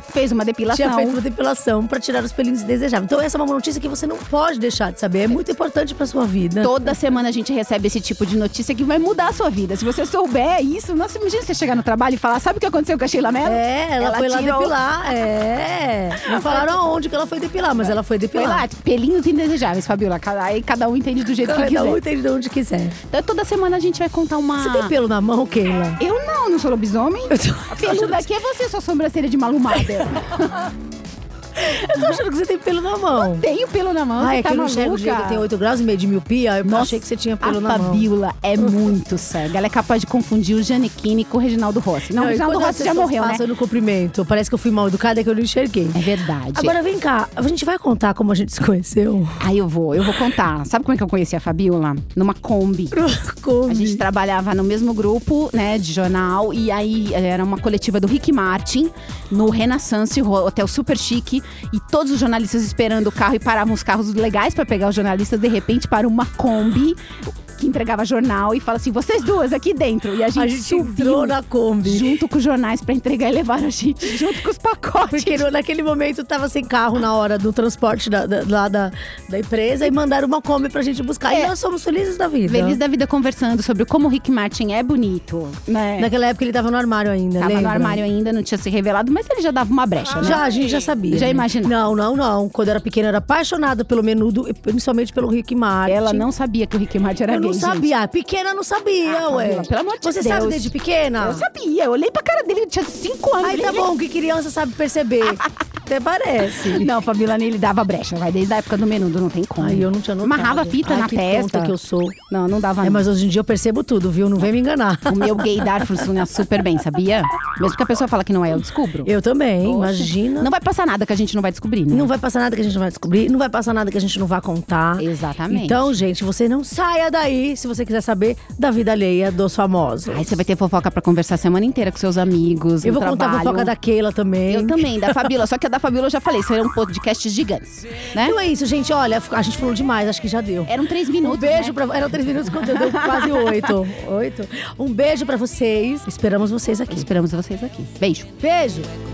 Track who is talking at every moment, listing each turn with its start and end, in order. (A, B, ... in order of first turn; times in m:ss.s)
0:00.1-0:01.2 A
0:00.7-0:07.2 B
0:06.6-0:14.8 A
0:13.4-0:18.7 B
0:16.2-0:16.8 A
0:18.4-0:22.0 A
0:21.4-0:23.0 B
0:23.1-0:24.9 A
0:24.6-0:26.0 B
0:26.0-0:30.7 A
0:27.3-0:28.3 B
0:31.6-0:33.5 B
0:33.2-0:35.4 A
0:34.2-0:38.1 B
0:36.6-0:43.4 A
0:42.2-0:46.0 B
0:46.0-0:46.8 A
0:46.5-0:49.4 B
0:49.4-0:53.0 A
0:52.9-0:54.0 B
0:53.7-1:07.0 A
1:07.5-1:15.5 A
1:10.4-1:12.2 B
1:15.1-1:22.8 B
1:22.4-1:26.1 A
1:26.0-1:28.0 B
1:27.4-1:30.5 A
1:30.2-1:36.3 B
1:31.1-1:31.8 A
1:35.9-1:37.9 A
1:37.3-1:41.5 B
1:39.0-1:43.9 A
1:43.4-1:46.9 B
1:46.5-1:51.8 A
1:49.6-1:52.2 B
1:52.3-1:53.0 A
1:52.8-1:56.1 B
1:55.1-2:02.1 A
1:59.0-2:00.5 B
2:01.9-2:10.3 B
2:05.0-2:06.0 A
2:10.1-2:13.7 A
2:12.8-2:15.3 B
2:14.5-2:18.4 A
2:18.2-2:27.1 B
2:20.7-2:23.7 A
2:26.9-2:28.3 A
2:28.4-2:28.9 B